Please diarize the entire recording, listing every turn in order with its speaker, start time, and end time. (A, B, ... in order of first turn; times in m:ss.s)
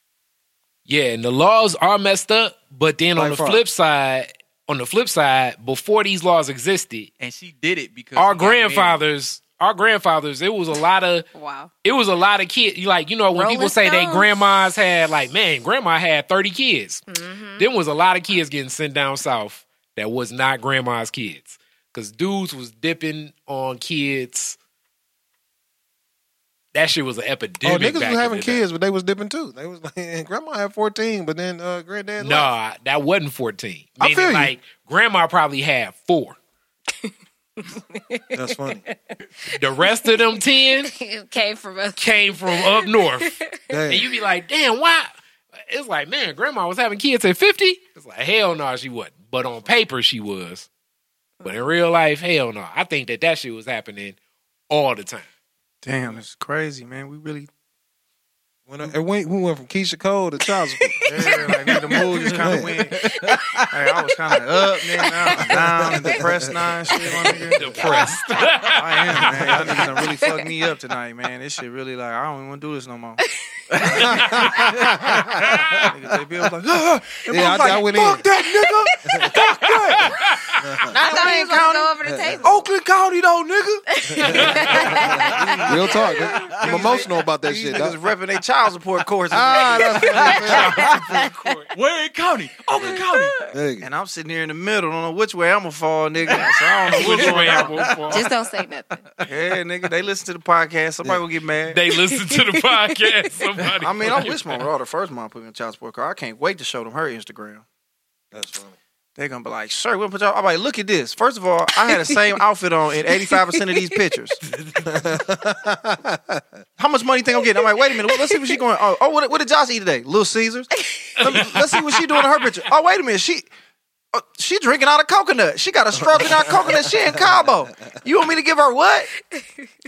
0:00.8-0:07.1 A
0:03.1-0:03.6 B
0:07.2-0:09.0 C
0:08.2-0:11.3 A
0:11.3-0:11.7 D
0:11.8-0:17.0 A
0:13.3-0:14.3 D
0:17.1-0:17.7 D
0:17.6-0:24.6 A
0:26.7-0:28.6 A
0:27.6-0:32.5 B
0:32.2-0:36.4 A
0:34.0-0:34.5 B
0:37.0-0:38.9 D
0:38.3-0:38.8 B
0:39.5-0:40.9 A
0:39.7-0:43.7 D
0:42.0-0:43.4 A
0:43.7-0:44.0 B
0:43.9-0:45.1 A
0:45.7-0:50.7 A
0:51.4-0:54.2 A
0:54.7-0:55.2 A
0:55.8-0:57.5 E
0:58.7-1:01.2 B
1:01.0-1:03.0 E
1:02.2-1:02.8 B
1:03.3-1:03.6 D
1:03.7-1:08.0 E
1:05.5-1:07.2 B
1:06.9-1:08.4 D
1:07.6-1:09.6 A
1:08.6-1:13.2 E
1:09.3-1:09.9 B
1:13.7-1:14.0 C
1:13.9-1:15.8 B
1:15.5-1:15.9 A
1:15.7-1:20.1 E
1:17.3-1:18.2 B
1:19.0-1:19.4 B
1:19.4-1:20.6 A
1:20.6-1:20.9 B
1:20.9-1:21.9 E
1:20.9-1:22.6 D
1:22.0-1:22.4 B
1:22.4-1:23.8 E
1:23.9-1:26.3 D
1:24.1-1:28.0 B
1:24.2-1:24.7 A
1:24.3-1:25.6 E
1:25.5-1:25.8 C
1:26.6-1:30.5 E
1:29.3-1:31.1 B
1:30.1-1:31.6 D
1:30.4-1:31.7 A
1:31.7-1:33.3 C
1:32.8-1:33.5 D
1:33.5-1:33.9 B
1:33.8-1:37.8 E
1:36.3-1:39.0 D
1:36.8-1:38.3 A
1:39.2-1:41.8 E
1:41.7-1:44.6 A
1:41.9-1:43.6 D
1:43.8-1:47.6 E
1:48.3-1:48.8 B
1:49.2-1:54.4 E
1:53.2-1:53.6 D
1:54.5-1:54.8 A
1:54.8-1:56.4 B
1:56.8-2:03.5 E
2:00.8-2:01.6 D
2:01.3-2:01.6 A
2:04.1-2:09.1 E
2:06.0-2:07.4 B
2:09.3-2:09.7 D